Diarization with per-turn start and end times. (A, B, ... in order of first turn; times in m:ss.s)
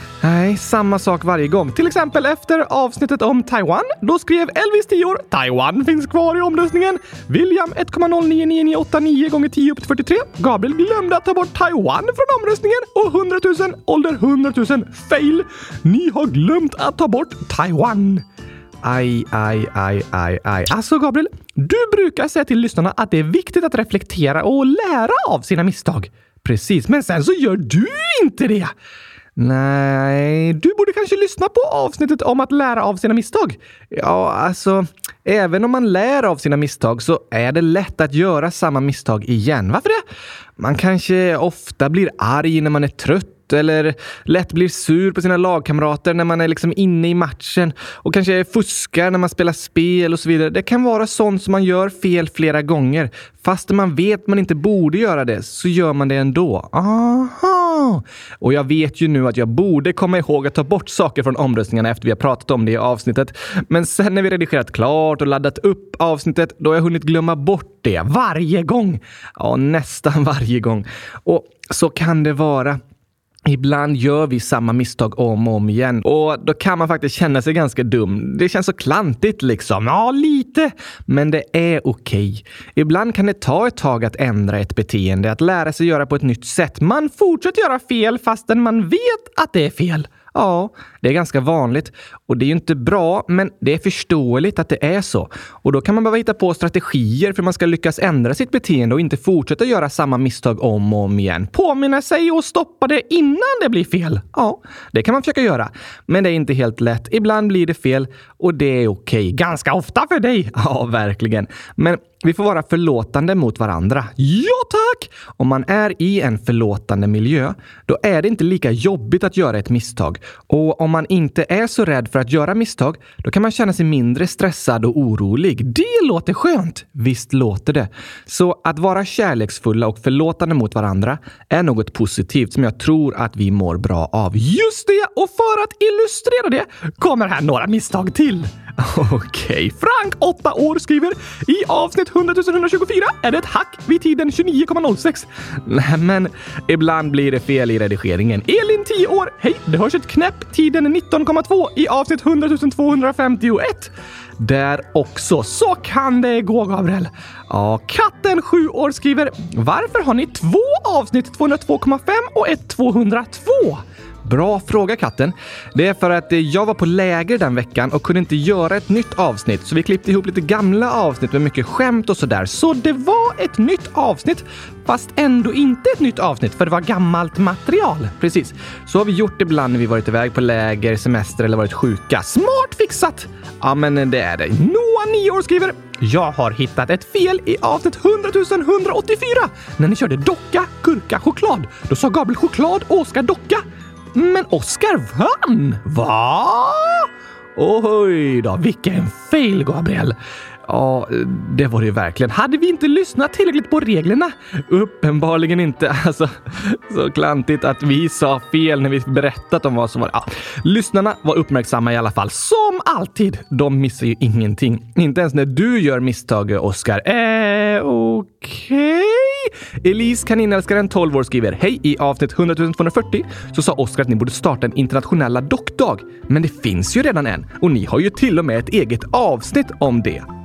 0:00.2-0:18.2 A
0:18.8-0:28.7 A
0:29.4-0:40.0 A
0:40.6-1:12.8 A
1:13.5-3:50.3 A